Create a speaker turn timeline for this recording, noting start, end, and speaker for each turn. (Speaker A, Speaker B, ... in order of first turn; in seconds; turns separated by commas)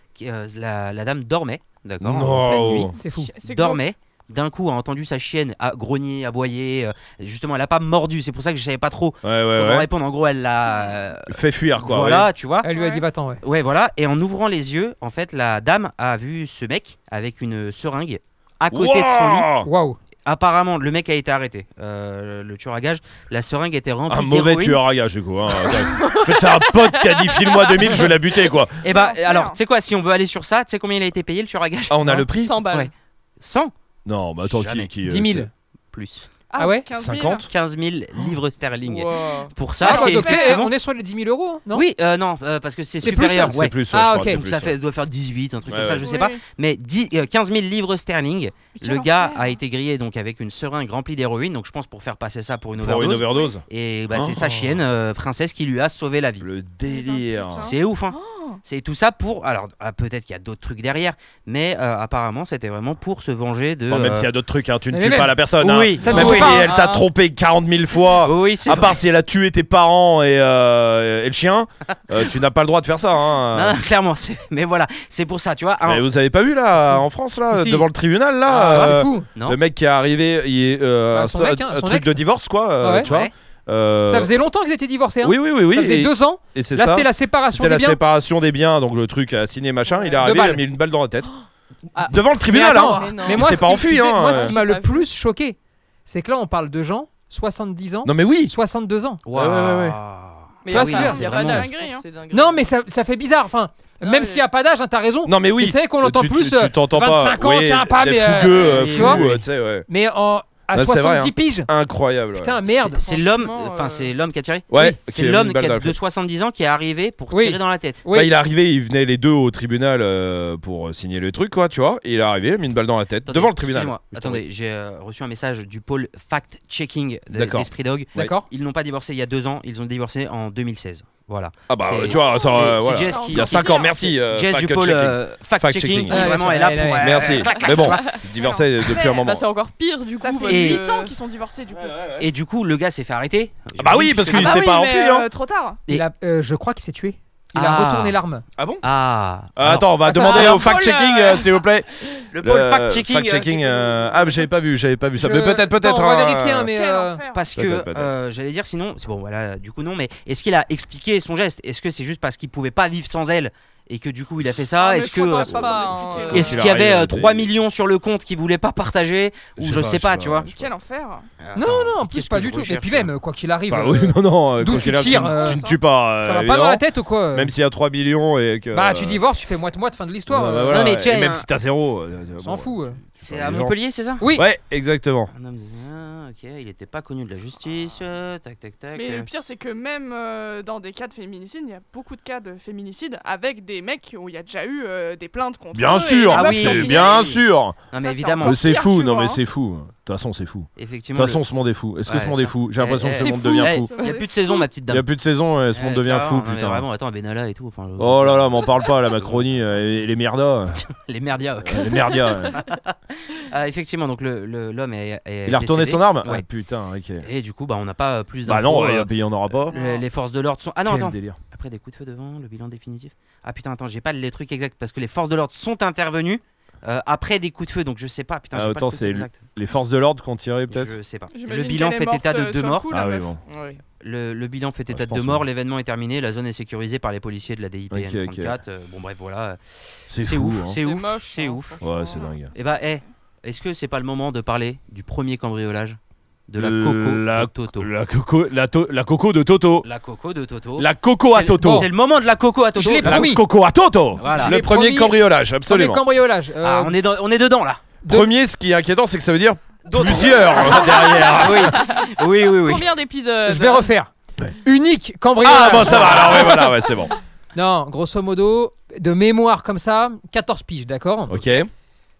Speaker A: 0.1-12.7, Speaker B: 2.0-2.9, Speaker C: 2.9-3.3, Speaker D: 3.0-3.8, Speaker B: 9.2-9.9, Speaker B: 11.3-12.3, Speaker C: 12.6-13.4, Speaker D: 12.7-13.0, Speaker A: 13.4-19.5, Speaker B: 18.7-19.7, Speaker C: 19.6-20.0, Speaker A: 20.2-24.8, Speaker B: 24.1-28.8, Speaker E: 25.9-27.8, Speaker A: 28.8-33.7, Speaker D: 28.8-29.6, Speaker B: 31.9-32.6, Speaker E: 32.3-32.9, Speaker B: 34.0-35.5, Speaker A: 34.4-34.9, Speaker C: 35.0-35.5, Speaker A: 35.9-36.3, Speaker D: 36.5-37.5, Speaker C: 36.6-36.9, Speaker B: 36.9-37.5, Speaker A: 37.5-40.7, Speaker E: 38.8-39.5, Speaker D: 39.8-40.6, Speaker C: 39.8-41.9, Speaker A: 41.7-56.5, Speaker B: 43.0-44.7, Speaker C: 43.0-44.4, Speaker B: 45.7-46.0, Speaker D: 46.0-46.4, Speaker D: 48.7-49.5, Speaker B: 52.8-54.8, Speaker B: 56.4-57.7, Speaker D: 56.8-58.6, Speaker A: 57.5-64.3, Speaker B: 63.9-73.8, Speaker C: 64.9-65.4, Speaker A: 65.6-67.0, Speaker C: 66.0-66.7, Speaker E: 66.1-67.0, Speaker A: 68.2-69.0, Speaker A: 73.5-76.0, Speaker B: 75.8-84.3, Speaker C: 76.8-77.9, Speaker C: 78.5-79.3, Speaker A: 78.7-79.6, Speaker C: 81.1-82.2, Speaker C: 82.8-83.1, Speaker A: 83.0-83.3, Speaker C: 84.1-88.0, Speaker B: 85.2-91.3, Speaker C: 90.2-90.6, Speaker E: 91.9-95.1, Speaker B: 92.1-94.5, Speaker C: 92.4-99.2, Speaker B: 98.0-98.5, Speaker A: 99.2-101.7, Speaker B: 99.3-100.0, Speaker E: 100.6-102.7, Speaker C: 100.7-101.3, Speaker D: 101.0-102.0, Speaker C: 102.3-109.2, Speaker E: 104.0-104.4, Speaker B: 105.2-109.8, Speaker A: 108.5-109.4, Speaker C: 109.9-111.7, Speaker B: 110.7-112.6, Speaker C: 112.3-113.0, Speaker A: 112.8-118.0, Speaker E: 113.0-114.1, Speaker B: 114.7-116.0, Speaker C: 117.3-118.3, Speaker B: 118.1-124.4, Speaker A: 123.3-137.9, Speaker B: 127.3-127.7, Speaker C: 128.1-128.4, Speaker B: 131.7-136.3, Speaker D: 132.6-133.9, Speaker C: 136.1-137.3, Speaker B: 136.9-139.4, Speaker E: 137.3-138.2, Speaker D: 137.4-139.3, Speaker E: 138.8-141.2, Speaker D: 140.2-142.2, Speaker A: 140.5-140.8, Speaker B: 141.7-142.2, Speaker A: 142.2-144.6, Speaker B: 143.8-145.2, Speaker D: 144.2-145.8, Speaker C: 145.9-148.4, Speaker A: 147.5-148.2, Speaker B: 148.6-148.8, Speaker A: 148.8-151.4, Speaker B: 149.5-156.7, Speaker C: 150.1-150.6, Speaker E: 150.4-151.0, Speaker A: 152.3-154.3, Speaker C: 155.2-157.2, Speaker D: 156.7-157.5, Speaker A: 157.3-170.5, Speaker B: 157.5-158.1, Speaker D: 164.7-166.6, Speaker E: 165.2-166.6, Speaker B: 166.2-167.5, Speaker B: 169.6-170.6, Speaker D: 170.5-171.2, Speaker A: 171.4-173.1, Speaker C: 171.5-175.6, Speaker B: 173.7-179.2, Speaker D: 175.2-175.8, Speaker C: 176.2-177.5, Speaker C: 178.7-180.9, Speaker B: 180.3-183.7, Speaker A: 180.7-181.4, Speaker C: 182.4-183.0, Speaker A: 183.2-184.3, Speaker C: 184.2-184.5, Speaker B: 184.3-185.3, Speaker A: 185.3-189.3, Speaker D: 188.9-197.3, Speaker B: 195.7-197.8, Speaker A: 196.3-197.4, Speaker A: 197.9-198.6, Speaker D: 197.9-199.4, Speaker B: 198.4-203.9, Speaker A: 200.8-201.4, Speaker A: 202.1-205.1, Speaker E: 203.1-204.2, Speaker D: 203.8-204.6, Speaker B: 204.9-206.8, Speaker A: 205.7-208.7, Speaker B: 208.0-210.8, Speaker A: 211.0-216.4, Speaker B: 211.6-212.6, Speaker B: 215.4-217.3, Speaker A: 217.2-219.1, Speaker B: 218.4-219.8, Speaker A: 219.7-229.4, Speaker B: 220.8-221.4, Speaker B: 228.5-230.9, Speaker A: 230.7-232.9, Speaker D: 231.3-233.3, Speaker B: 232.9-233.4, Speaker E: 233.4-233.8, Speaker A: 234.0-239.6, Speaker B: 234.9-235.4, Speaker B: 237.9-238.6, Speaker B: 240.1-240.8, Speaker A: 240.2-241.8, Speaker E: 240.7-242.3, Speaker B: 241.8-242.5, Speaker A: 242.5-247.9, Speaker B: 246.6-249.8, Speaker A: 249.8-253.3, Speaker B: 250.8-251.9, Speaker C: 251.6-251.9, Speaker C: 252.8-253.4, Speaker B: 253.0-256.0, Speaker A: 254.2-254.5, Speaker C: 254.3-257.0, Speaker A: 256.6-257.8, Speaker C: 258.0-258.3, Speaker B: 258.1-261.8, Speaker A: 259.9-262.9, Speaker E: 260.6-263.9, Speaker C: 263.4-264.1, Speaker C: 264.6-266.6, Speaker B: 265.4-267.1, Speaker A: 265.9-266.2, Speaker C: 267.5-271.4, Speaker B: 271.3-271.7